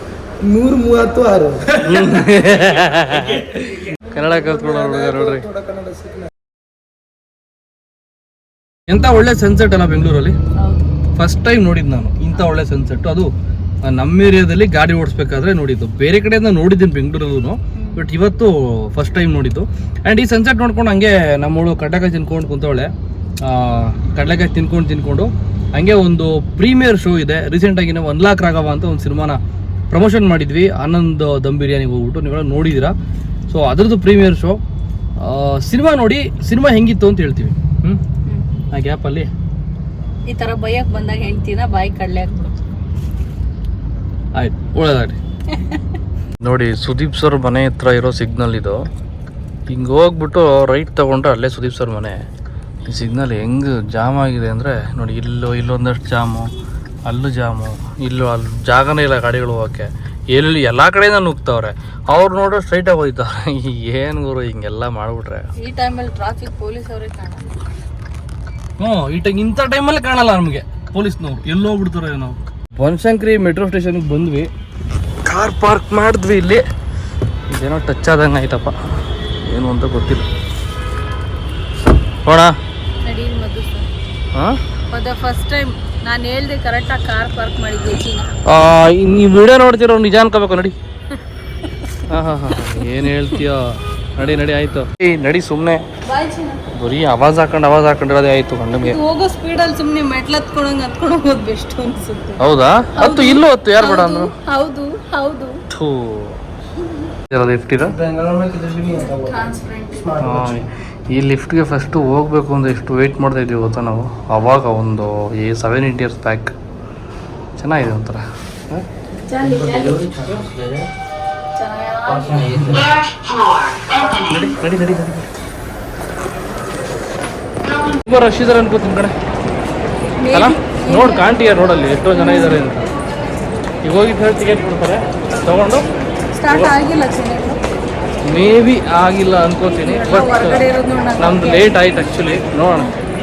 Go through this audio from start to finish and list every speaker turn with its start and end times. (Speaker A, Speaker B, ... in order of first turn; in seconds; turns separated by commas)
Speaker A: 0.4-1.9, Speaker B: 1.8-5.5, Speaker A: 4.2-6.3, Speaker B: 8.9-10.3, Speaker C: 10.6-10.9, Speaker B: 11.2-13.3, Speaker B: 13.8-22.9, Speaker C: 17.8-18.0, Speaker B: 23.4-29.4, Speaker B: 29.9-32.9, Speaker B: 33.5-34.6, Speaker B: 35.2-38.0, Speaker C: 38.2-38.5, Speaker B: 38.7-39.3, Speaker C: 40.3-42.8, Speaker B: 44.3-45.2, Speaker C: 45.5-45.8, Speaker B: 46.4-48.9, Speaker B: 49.7-52.2, Speaker B: 52.9-56.5, Speaker B: 57.0-65.5, Speaker C: 65.6-67.7, Speaker B: 68.8-74.5, Speaker B: 75.2-76.6, Speaker B: 77.5-78.7, Speaker B: 79.4-80.3, Speaker B: 82.2-82.5, Speaker C: 83.0-83.9, Speaker B: 84.3-84.6, Speaker C: 84.9-88.3, Speaker B: 88.5-90.7, Speaker C: 91.7-92.0, Speaker B: 92.1-95.8, Speaker C: 92.5-93.1, Speaker C: 96.0-96.6, Speaker B: 96.7-99.0, Speaker C: 98.8-105.6, Speaker B: 102.4-104.3, Speaker B: 105.7-106.4, Speaker B: 107.3-108.0, Speaker A: 107.8-109.5, Speaker C: 108.9-110.2, Speaker A: 110.0-110.6, Speaker B: 110.2-116.5, Speaker B: 117.6-118.8, Speaker C: 119.3-120.2, Speaker B: 119.4-120.8, Speaker C: 121.5-122.6, Speaker B: 122.1-122.9, Speaker B: 124.2-125.3, Speaker B: 128.0-129.1, Speaker C: 130.2-131.4, Speaker B: 130.3-132.9, Speaker C: 132.1-132.6, Speaker B: 133.8-135.9, Speaker C: 136.3-137.6, Speaker B: 138.2-140.6, Speaker C: 139.7-141.9, Speaker B: 141.2-142.9